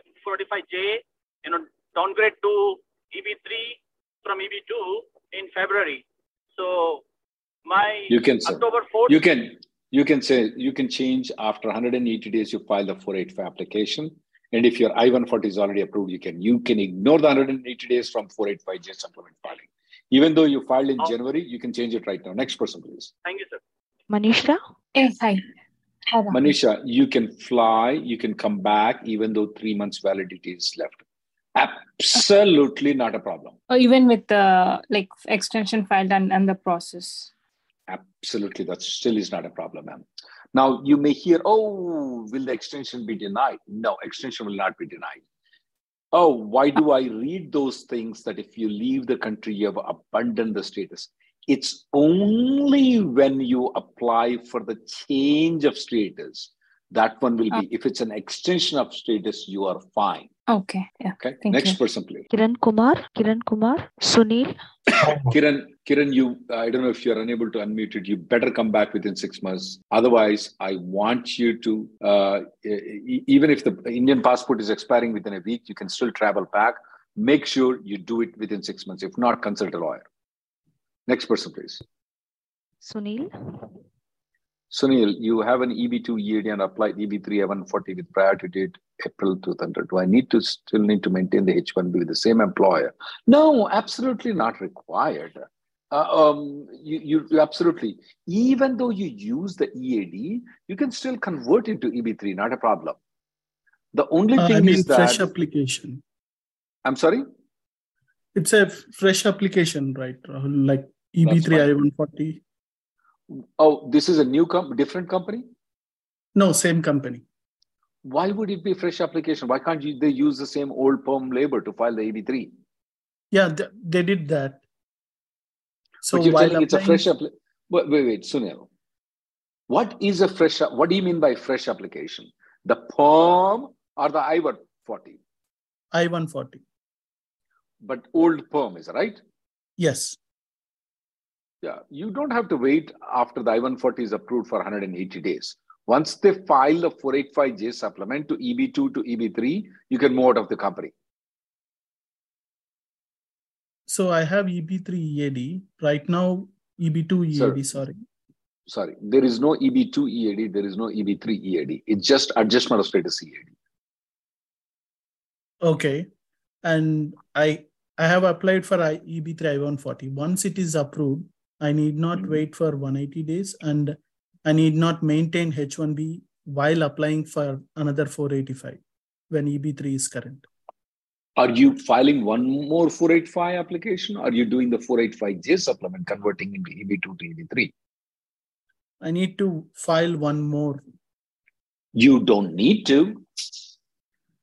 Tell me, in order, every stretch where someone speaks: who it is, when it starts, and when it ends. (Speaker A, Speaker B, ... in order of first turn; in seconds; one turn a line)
Speaker A: 0.2-6.0
Speaker A: 6.6-7.0
Speaker A: 7.7-9.2
Speaker B: 8.1-23.1
Speaker A: 23.2-23.6
Speaker C: 24.1-24.6
Speaker D: 24.9-25.5
Speaker D: 26.1-26.5
Speaker B: 26.3-31.0
Speaker B: 31.6-33.6
Speaker D: 33.7-37.3
Speaker B: 37.9-45.2
Speaker B: 46.1-60.3
Speaker D: 60.5-61.8
Speaker B: 61.2-62.3
Speaker C: 62.3-64.5
Speaker B: 65.1-80.0
Speaker B: 81.1-81.8
Speaker C: 82.8-83.3
Speaker B: 84.7-103.0
Speaker B: 103.9-105.3
Speaker E: 104.4-106.0
Speaker B: 106.8-107.2
Speaker E: 108.3-112.4
Speaker B: 111.2-111.7
Speaker B: 113.3-115.5
Speaker E: 116.4-117.2
Speaker B: 118.0-122.5
Speaker E: 123.3-124.6
Speaker E: 126.0-127.0
Speaker B: 126.1-128.7
Speaker B: 129.7-135.2
Speaker E: 135.9-136.6
Speaker B: 137.8-139.2
Speaker E: 139.8-140.2
Speaker B: 141.6-150.9
Speaker E: 153.9-158.0
Speaker B: 157.3-157.6
Speaker B: 158.7-163.5
Speaker E: 165.6-166.1
Speaker E: 166.7-178.8
Speaker E: 179.3-180.5
Speaker B: 181.4-187.7
Speaker E: 189.0-190.8
Speaker B: 191.9-193.2